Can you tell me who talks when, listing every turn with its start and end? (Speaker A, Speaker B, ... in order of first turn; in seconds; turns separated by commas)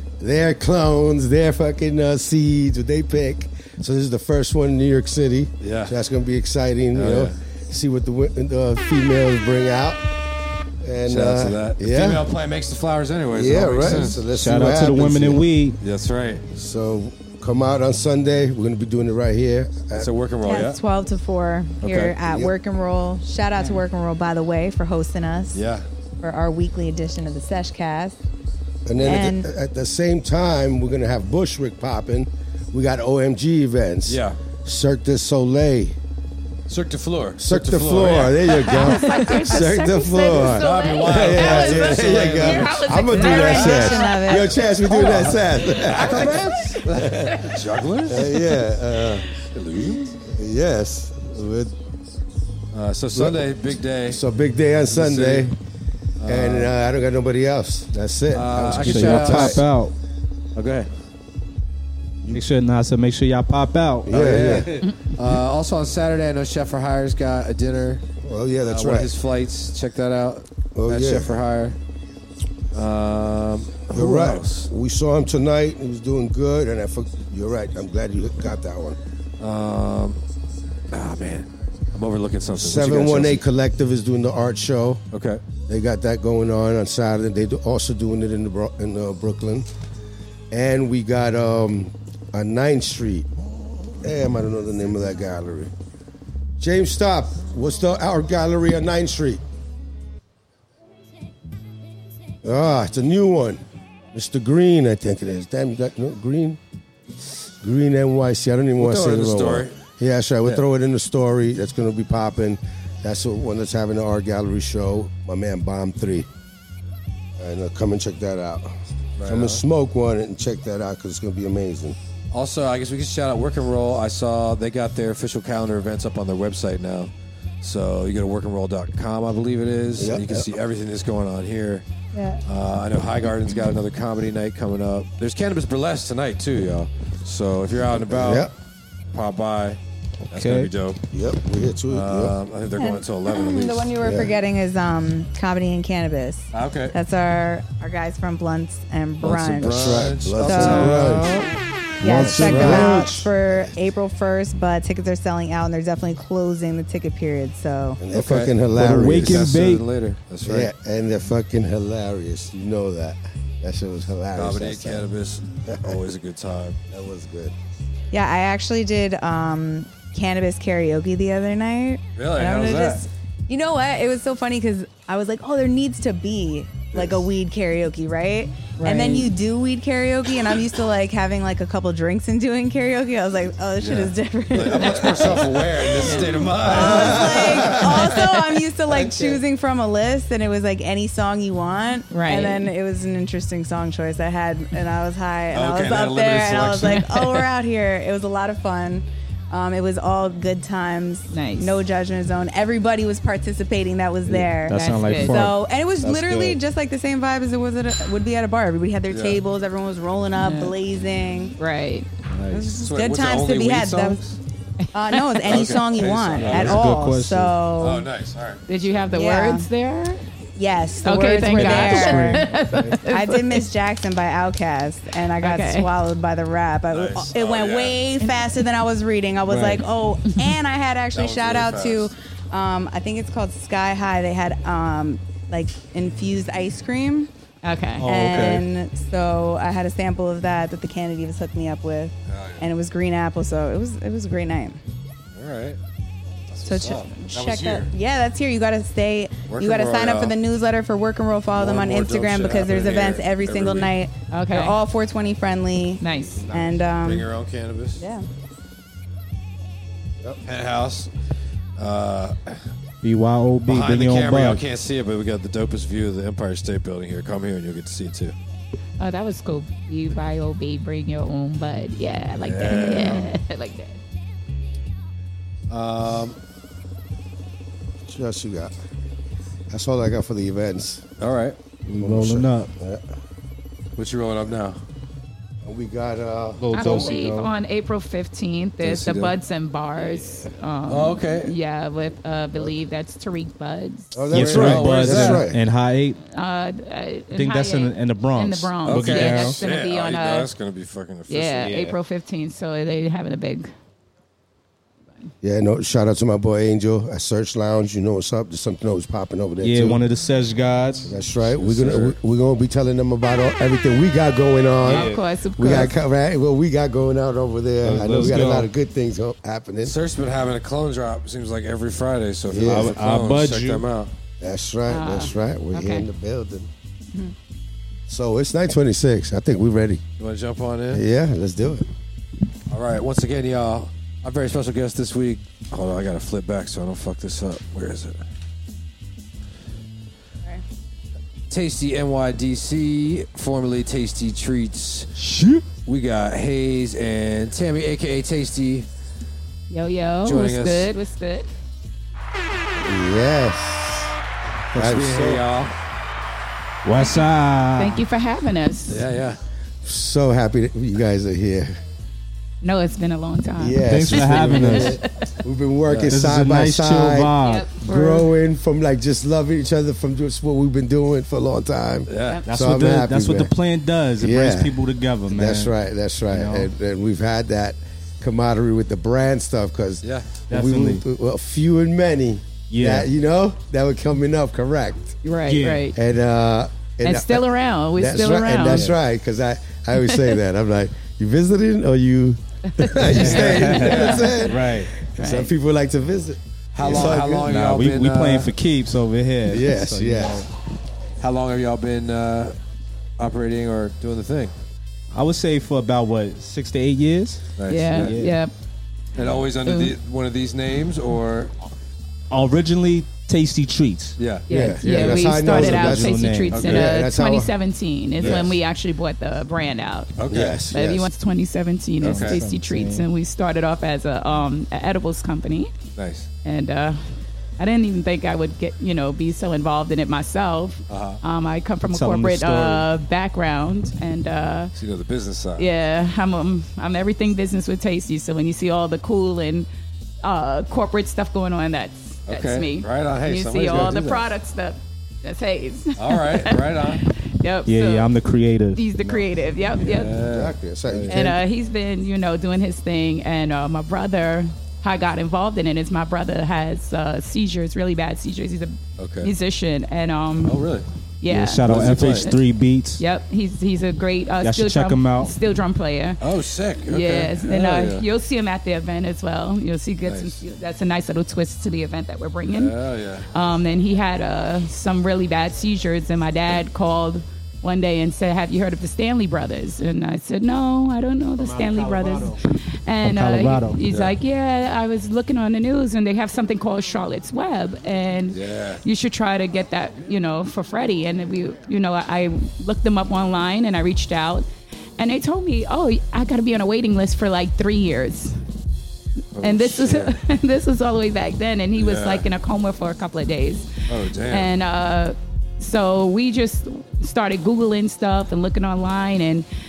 Speaker A: 0.2-10.0, Speaker B: 5.6-5.9, Speaker B: 6.9-7.3, Speaker A: 10.8-12.3, Speaker B: 11.1-14.2, Speaker A: 13.3-15.4, Speaker C: 14.3-15.8, Speaker B: 15.8-16.4, Speaker A: 16.5-20.1, Speaker B: 19.9-20.8, Speaker D: 20.4-25.6, Speaker B: 21.8-22.2, Speaker A: 22.2-22.5, Speaker B: 25.5-25.9, Speaker D: 26.2-28.2, Speaker A: 28.9-36.0, Speaker D: 29.0-29.5, Speaker B: 34.1-34.4, Speaker B: 36.7-38.9, Speaker A: 37.4-47.5, Speaker E: 38.6-44.4, Speaker B: 40.3-42.8, Speaker D: 43.1-44.5, Speaker B: 44.8-48.5, Speaker A: 48.0-49.3, Speaker B: 49.3-50.2, Speaker A: 50.3-51.7, Speaker B: 52.7-54.2, Speaker A: 53.1-55.5, Speaker B: 54.9-55.5, Speaker B: 56.2-56.7, Speaker A: 56.2-59.6, Speaker B: 58.3-59.6, Speaker C: 58.8-59.9, Speaker B: 60.5-60.9, Speaker C: 62.3-64.8, Speaker A: 64.0-64.7, Speaker B: 64.1-68.0, Speaker A: 68.2-69.1, Speaker B: 68.7-71.8, Speaker A: 70.7-71.3, Speaker B: 72.7-74.7, Speaker A: 73.9-79.0, Speaker B: 79.4-80.2, Speaker B: 80.9-83.4, Speaker A: 82.5-85.0, Speaker B: 85.1-85.4, Speaker A: 85.7-89.7, Speaker A: 90.5-93.3, Speaker A: 94.0-95.7, Speaker A: 96.6-99.4, Speaker A: 102.4-103.6, Speaker A: 104.1-106.6, Speaker A: 107.6-116.3, Speaker B: 108.8-109.8, Speaker A: 117.4-122.0, Speaker B: 119.2-119.6, Speaker B: 122.3-127.1, Speaker B: 127.6-131.8, Speaker A: 129.9-130.5, Speaker D: 132.1-132.4, Speaker B: 132.4-138.5, Speaker A: 138.1-138.5, Speaker B: 139.1-139.8, Speaker B: 140.3-141.0, Speaker C: 140.3-140.7, Speaker A: 141.1-142.3, Speaker B: 141.9-143.9, Speaker D: 142.8-151.3, Speaker A: 144.0-144.3, Speaker B: 146.5-146.9, Speaker B: 149.2-151.5, Speaker A: 149.5-151.4, Speaker C: 151.0-151.5, Speaker A: 152.0-153.2, Speaker D: 152.0-158.0, Speaker C: 152.0-153.3, Speaker A: 158.0-159.5, Speaker B: 158.1-160.7, Speaker C: 158.7-159.8, Speaker A: 160.4-165.1, Speaker B: 164.3-166.8, Speaker A: 165.7-166.0, Speaker A: 166.9-167.5, Speaker D: 168.1-211.5, Speaker B: 172.2-173.0, Speaker E: 178.8-179.3, Speaker B: 183.8-188.2, Speaker E: 186.0-187.3, Speaker A: 186.7-187.7, Speaker E: 188.0-188.3, Speaker B: 188.9-189.3, Speaker E: 192.1-192.7, Speaker B: 195.5-197.1, Speaker E: 196.9-197.4, Speaker E: 201.3-201.8, Speaker C: 204.2-206.6, Speaker E: 204.7-205.5, Speaker B: 209.1-209.4, Speaker E: 210.4-210.7, Speaker E: 211.6-212.1, Speaker C: 212.3-212.7, Speaker D: 212.5-214.2, Speaker B: 212.6-214.4, Speaker D: 214.9-218.1, Speaker E: 215.1-215.7, Speaker B: 215.4-216.9, Speaker C: 216.4-217.6, Speaker B: 217.8-218.6, Speaker E: 218.7-220.2, Speaker D: 219.1-219.7, Speaker D: 220.6-237.3, Speaker E: 221.0-223.7, Speaker C: 221.4-223.0, Speaker E: 225.4-225.9, Speaker B: 226.9-228.0, Speaker C: 229.5-229.8, Speaker B: 231.1-232.1, Speaker E: 237.6-238.1, Speaker C: 238.0-238.7, Speaker D: 238.0-244.8, Speaker B: 242.3-242.7, Speaker B: 245.3-245.8, Speaker B: 246.5-247.9, Speaker D: 246.6-257.3, Speaker B: 249.5-250.4, Speaker B: 251.5-253.9, Speaker E: 254.3-254.8, Speaker E: 256.0-256.4, Speaker B: 256.5-258.0, Speaker D: 258.0-258.2, Speaker B: 260.4-261.1, Speaker B: 261.8-262.6, Speaker C: 263.0-264.6, Speaker B: 263.7-268.3, Speaker E: 269.0-274.0, Speaker B: 272.4-273.3, Speaker B: 275.7-276.4, Speaker A: 278.0-278.7, Speaker A: 279.7-281.1, Speaker B: 281.2-281.6, Speaker C: 281.9-282.7, Speaker A: 281.9-283.1, Speaker B: 283.9-284.8, Speaker A: 285.6-287.1, Speaker C: 286.6-287.5, Speaker E: 286.7-294.1, Speaker B: 288.8-289.3, Speaker B: 290.9-291.5, Speaker A: 294.1-295.6, Speaker C: 294.3-296.2, Speaker B: 294.3-295.4, Speaker E: 296.3-300.5, Speaker C: 297.3-299.6, Speaker B: 298.8-301.7, Speaker E: 301.3-303.7, Speaker C: 301.6-301.9, Speaker A: 305.4-310.0, Speaker C: 309.6-311.1, Speaker A: 311.0-319.9, Speaker B: 311.4-312.1, Speaker E: 314.8-316.0, Speaker C: 314.9-315.2, Speaker C: 317.8-318.7, Speaker B: 319.8-324.1, Speaker A: 322.5-323.0, Speaker C: 322.6-323.9, Speaker A: 324.4-326.7, Speaker E: 324.9-326.1, Speaker A: 328.1-330.0, Speaker B: 330.2-331.0, Speaker A: 330.9-331.9, Speaker B: 332.7-338.2, Speaker B: 341.5-345.1, Speaker C: 345.2-345.6, Speaker B: 345.8-348.9, Speaker E: 349.7-351.5, Speaker B: 350.2-350.9, Speaker A: 352.8-354.1, Speaker A: 354.7-355.4, Speaker B: 354.7-355.7, Speaker C: 356.8-358.0, Speaker E: 357.8-359.0, Speaker B: 358.9-359.4, Speaker A: 359.8-361.8, Speaker E: 362.6-365.3, Speaker A: 363.6-373.5, Speaker C: 363.9-365.0, Speaker B: 365.9-366.1, Speaker C: 366.1-367.7, Speaker E: 367.4-368.3, Speaker B: 372.1-372.4, Speaker C: 372.4-375.7, Speaker A: 374.2-385.2, Speaker C: 376.3-376.7, Speaker B: 380.0-380.3, Speaker C: 380.5-381.0, Speaker C: 382.7-383.1, Speaker E: 385.2-386.0, Speaker C: 385.4-385.9, Speaker A: 385.9-397.5, Speaker E: 387.0-388.9, Speaker E: 390.0-390.3, Speaker E: 392.7-394.5, Speaker C: 393.1-394.9, Speaker B: 393.2-394.4, Speaker E: 395.2-395.5, Speaker B: 396.7-398.5, Speaker C: 396.9-400.5, Speaker A: 399.4-400.5, Speaker B: 401.2-402.6, Speaker B: 403.2-404.5, Speaker C: 405.1-408.4, Speaker B: 407.6-408.1, Speaker E: 407.7-408.5, Speaker B: 409.1-411.5, Speaker E: 409.6-409.9, Speaker C: 412.3-414.2, Speaker B: 414.2-414.5, Speaker E: 414.5-420.1, Speaker A: 414.5-417.5, Speaker C: 414.8-416.9, Speaker B: 416.5-416.9, Speaker B: 418.2-418.5, Speaker A: 418.2-418.5, Speaker B: 420.2-420.6, Speaker A: 420.3-421.1, Speaker E: 420.7-425.7, Speaker B: 422.0-422.4, Speaker C: 422.0-423.1, Speaker B: 425.9-426.3, Speaker E: 426.4-427.0, Speaker E: 427.6-434.7, Speaker B: 430.9-431.2, Speaker C: 431.8-432.9, Speaker B: 434.7-435.7, Speaker E: 435.6-439.7, Speaker E: 440.2-448.1, Speaker B: 442.3-444.2, Speaker B: 446.0-447.0, Speaker C: 447.6-449.2, Speaker E: 448.7-450.1, Speaker B: 449.8-451.2, Speaker A: 450.1-451.4, Speaker E: 451.1-460.6, Speaker B: 459.0-459.3, Speaker B: 460.4-460.9, Speaker E: 461.2-462.4, Speaker C: 461.3-463.0, Speaker B: 461.6-462.3, Speaker E: 463.0-466.2, Speaker C: 464.4-465.3, Speaker B: 466.2-468.0, Speaker E: 466.9-472.7, Speaker B: 470.0-470.4, Speaker B: 472.5-473.3, Speaker E: 473.3-494.5, Speaker A: 481.4-482.4, Speaker C: 483.0-483.8, Speaker B: 488.3-488.8, Speaker E: 495.0-498.4, Speaker B: 499.4-500.2, Speaker E: 499.4-509.4, Speaker B: 501.8-502.2, Speaker B: 503.9-504.5